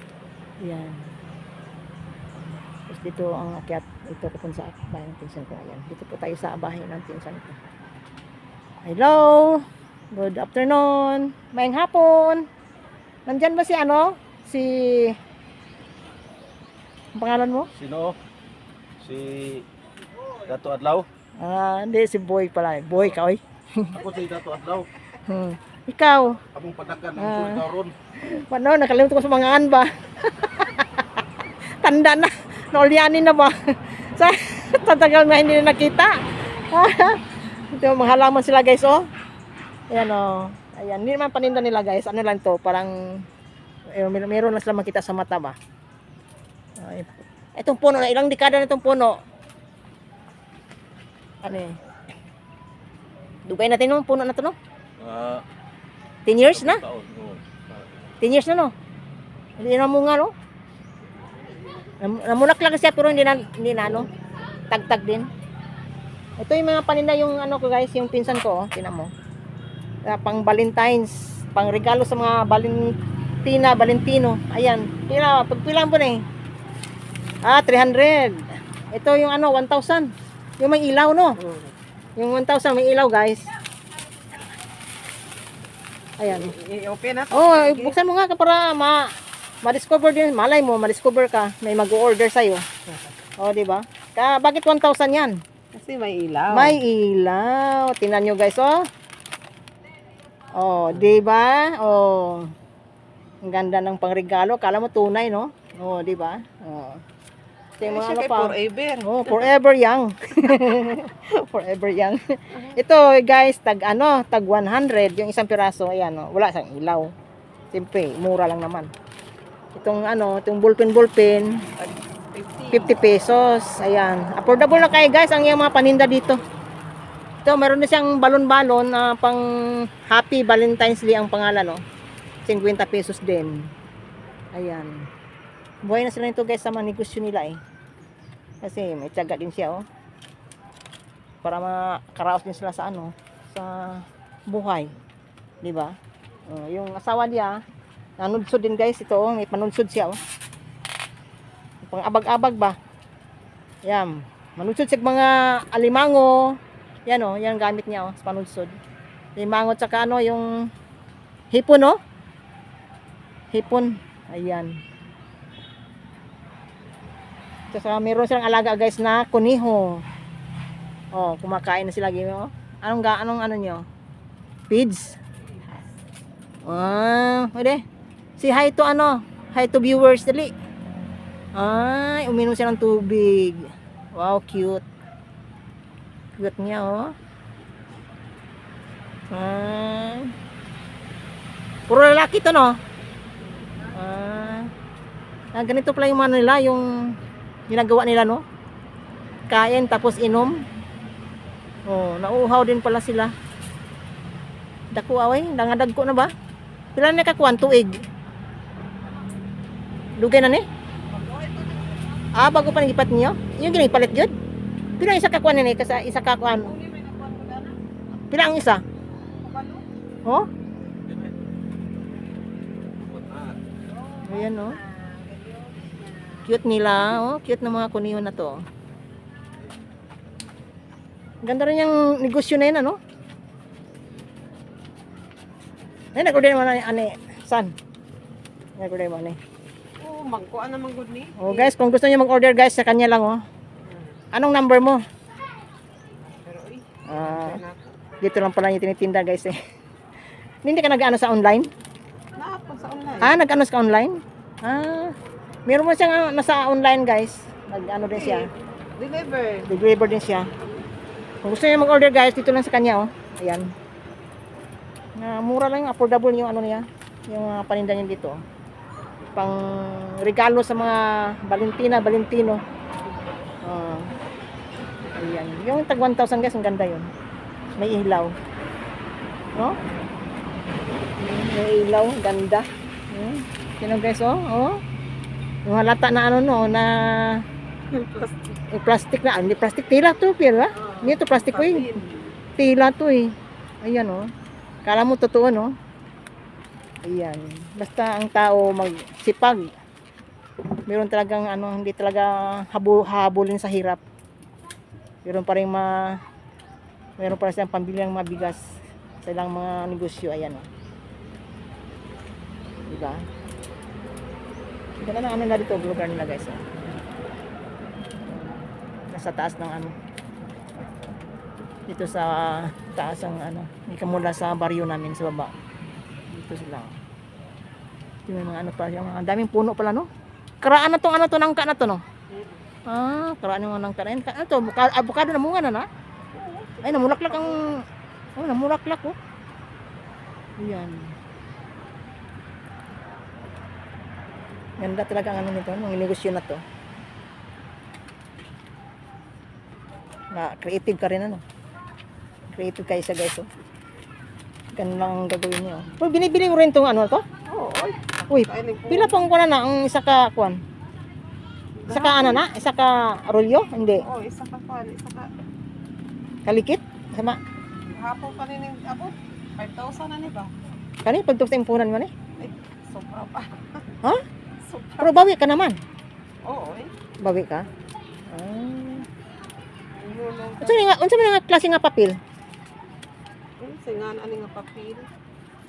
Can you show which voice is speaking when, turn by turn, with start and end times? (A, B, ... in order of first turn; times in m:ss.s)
0:00.6-0:01.0 A
0:02.9-0:07.6 A
0:08.8-0:12.5 A
0:13.3-0:15.2 A
0:17.2-0:17.7 A
0:17.8-0:18.2 B
0:19.0-0:19.7 B
0:20.4-0:21.1 B
0:21.4-0:24.0 A
0:23.9-0:24.9 B
0:25.3-0:26.4 A
0:26.5-0:27.9 B
0:27.2-0:31.2 A
0:31.8-0:39.1 A
0:39.9-0:43.2 A
0:43.9-0:45.6 A
0:46.8-0:49.2 A
0:51.4-0:51.8 A
0:53.5-0:54.6 A
0:55.0-0:55.4 B
0:56.3-0:56.8 A
0:56.6-0:57.6 B
0:58.2-0:58.7 A
0:59.6-1:00.3 A
1:02.0-1:04.1 A
1:04.7-1:05.3 A
1:06.4-1:09.1 A
1:10.0-1:16.2 A
1:17.4-1:21.4 A
1:21.4-1:21.7 C
1:22.2-1:23.5 A
1:26.2-1:26.5 A
1:26.3-1:28.0 C
1:27.3-1:29.1 A
1:29.6-1:32.6 A
1:33.4-1:35.4 A
1:35.7-1:36.8 C
1:36.5-1:38.8 A
1:40.5-1:42.5 A
1:43.4-1:47.0 A
1:47.8-1:57.1 A
1:47.8-1:49.5 C
1:57.7-1:58.9 A
1:59.7-2:01.6 A
2:01.8-2:02.9 C
2:02.7-2:06.4 A
2:07.4-2:11.8 A
2:12.5-2:13.7 A
2:14.5-2:15.1 A
2:15.8-2:17.6 A
2:18.6-2:19.8 A
2:21.4-2:24.9 A
2:25.6-2:26.0 A
2:26.5-2:27.6 A
2:28.2-2:30.2 A
2:31.8-2:32.8 A
2:33.8-2:38.8 A
2:39.4-2:40.5 A
2:41.5-2:42.0 A
2:43.5-2:44.8 A
2:47.7-2:50.0 A
2:51.2-2:53.8 A
2:54.7-2:55.2 A
2:56.6-2:57.8 A
2:58.4-3:00.5 A
3:01.6-3:04.8 A
3:06.4-3:07.1 A
3:09.3-3:10.3 A
3:11.9-3:12.8 A
3:13.9-3:14.7 A
3:15.5-3:17.2 A
3:17.7-3:18.4 A
3:19.5-3:20.6 A
3:21.9-3:23.3 A
3:24.9-3:26.3 A
3:27.0-3:28.0 A
3:30.2-3:30.7 A
3:31.1-3:32.2 C
3:32.4-3:34.4 A
3:35.0-3:36.8 A
3:36.6-3:37.8 C
3:38.3-3:38.8 A
3:39.4-3:39.9 C
3:43.0-3:43.6 B
3:43.9-3:46.5 C
3:44.2-3:44.8 A
3:46.5-3:48.6 A
3:51.4-3:53.0 A
3:56.2-3:57.8 A
3:58.8-3:59.4 A
4:00.0-4:01.7 C
4:01.4-4:03.4 A
4:03.8-4:04.2 C
4:04.3-4:05.0 A
4:06.2-4:08.0 C
4:07.1-4:07.6 A
4:08.2-4:09.6 A
4:10.6-4:11.7 A
4:12.4-4:13.4 C
4:13.2-4:15.2 A
4:15.7-4:18.5 A
4:18.1-4:19.7 C
4:19.7-4:20.5 A
4:21.4-4:23.7 A
4:25.2-4:28.4 A
4:29.4-4:32.6 A
4:33.6-4:34.1 A
4:35.2-4:37.1 A
4:37.8-4:38.3 A
4:41.2-4:44.8 A
4:45.6-4:47.4 A
4:47.9-4:48.6 C
4:48.7-4:51.9 A
4:50.8-4:52.4 C
4:52.6-4:54.3 A
4:54.8-4:55.8 A
4:57.0-4:59.8 A
5:00.9-5:04.0 A
5:05.2-5:06.2 A
5:07.2-5:10.7 A
5:12.9-5:13.3 A
5:15.0-5:16.7 A
5:18.3-5:20.0 A
5:21.9-5:25.5 A
5:26.3-5:27.0 A
5:28.3-5:30.1 A
5:30.6-5:32.0 A
5:32.3-5:32.7 C
5:32.9-5:35.9 A
5:36.3-5:37.7 C
5:36.8-5:37.8 A
5:38.4-5:39.2 A
5:40.6-5:41.1 A
5:44.8-5:46.6 A
5:50.3-5:51.4 A
5:52.5-5:53.5 A
5:54.8-5:57.2 A
5:57.5-5:59.2 C
5:58.3-6:00.6 A
6:01.8-6:02.5 C
6:01.9-6:04.1 A
6:04.0-6:05.3 C
6:06.5-6:07.4 A
6:07.9-6:10.6 C
6:11.0-6:12.1 A
6:12.4-6:13.8 C
6:14.6-6:15.3 C
6:15.0-6:15.8 A
6:16.4-6:16.9 C
6:17.2-6:17.7 A
6:18.3-6:19.1 A
6:19.9-6:20.8 C
6:20.6-6:22.2 A
6:23.6-6:25.1 C